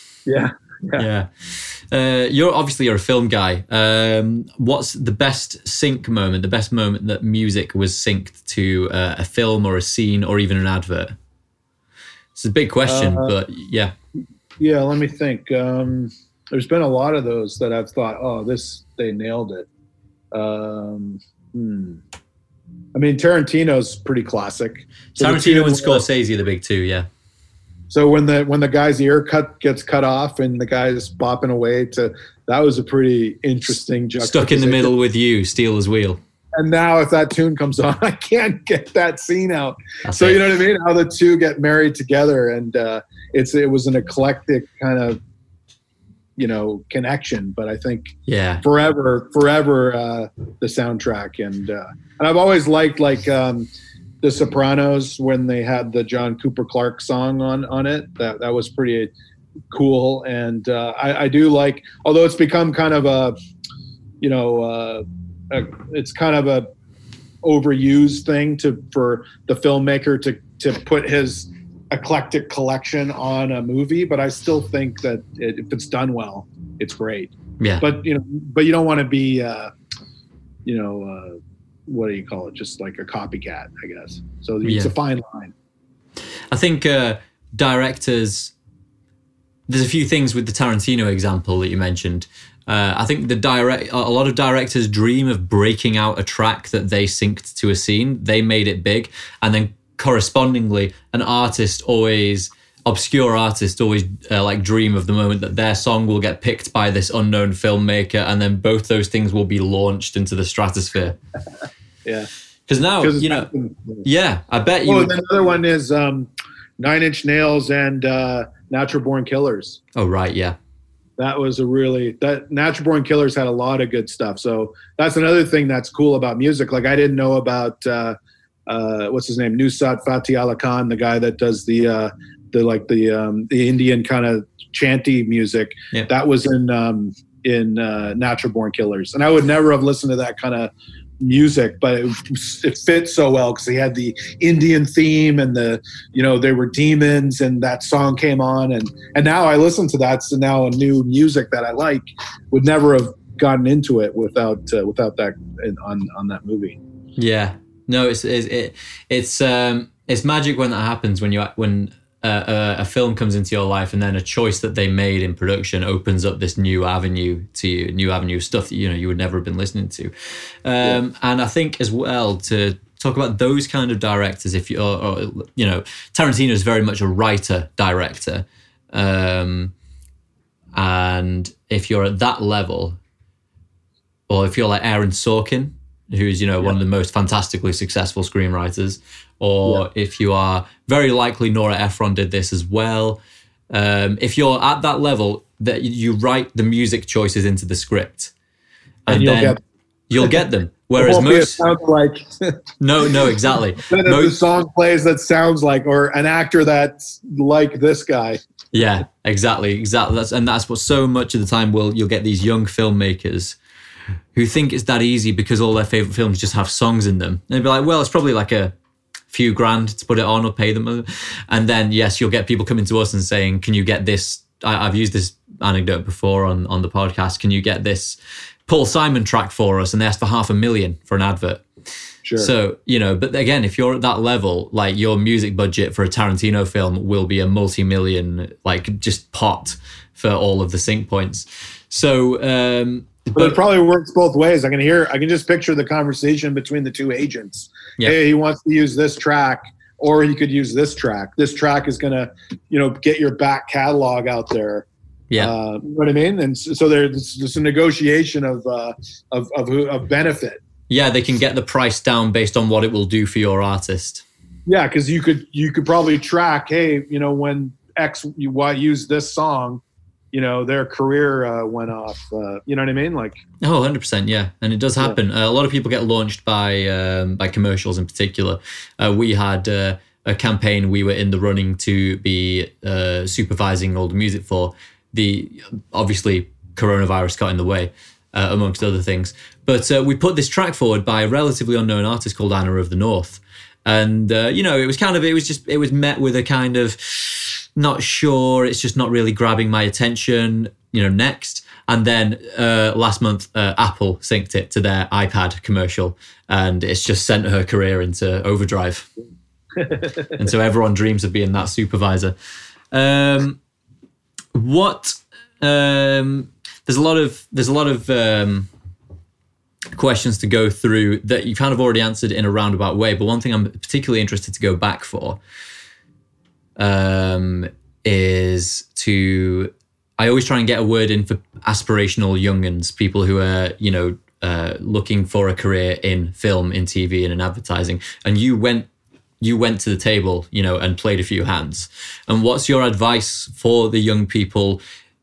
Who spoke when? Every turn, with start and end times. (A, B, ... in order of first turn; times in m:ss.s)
0:00.3-0:01.1 A
0:01.0-0:11.1 B
0:12.4-0:13.9 B
0:12.9-0:13.3 A
0:14.6-0:19.7 A
0:20.3-0:22.0 A
0:22.9-0:26.0 A
0:25.2-0:27.1 B
0:27.9-0:34.9 A
0:34.2-0:36.2 B
0:36.6-0:45.2 A
0:40.1-0:40.6 B
0:46.4-0:53.7 A
0:48.3-0:48.6 B
0:54.2-0:59.1 A
0:59.7-1:03.4 A
1:04.2-1:06.7 A
1:07.4-1:19.7 A
1:17.6-1:17.8 B
1:20.7-1:25.5 A
1:24.6-1:24.9 B
1:26.5-1:28.5 B
1:29.7-1:51.2 B
1:52.0-1:52.3 A
1:52.7-1:53.5 B
1:53.0-1:54.0 A
1:54.0-1:55.2 B
1:54.8-1:59.8 A
2:00.0-2:00.6 B
2:01.2-2:08.2 A
2:08.7-2:36.8 A
2:37.2-2:50.1 B
2:50.6-2:59.7 B
3:00.7-3:03.0 B
3:04.3-3:18.3 B
3:19.1-3:19.6 B
3:19.1-3:19.6 A
3:20.1-3:21.6 B
3:20.2-3:20.4 A
3:21.0-3:22.6 A
3:22.8-3:24.4 B
3:23.9-3:28.4 A
3:28.7-3:33.6 B
3:34.3-3:38.7 B
3:39.3-3:51.7 B
3:52.2-3:52.5 A
3:52.4-4:03.6 B
4:03.3-4:20.6 A
4:20.9-4:24.2 B
4:24.7-4:33.4 A
4:33.6-5:09.1 B
5:09.8-5:10.3 A
5:10.3-5:12.3 B
5:12.9-5:13.6 B
5:14.5-5:18.7 B
5:20.0-5:25.4 B
5:26.8-5:38.9 B
5:39.4-5:44.8 B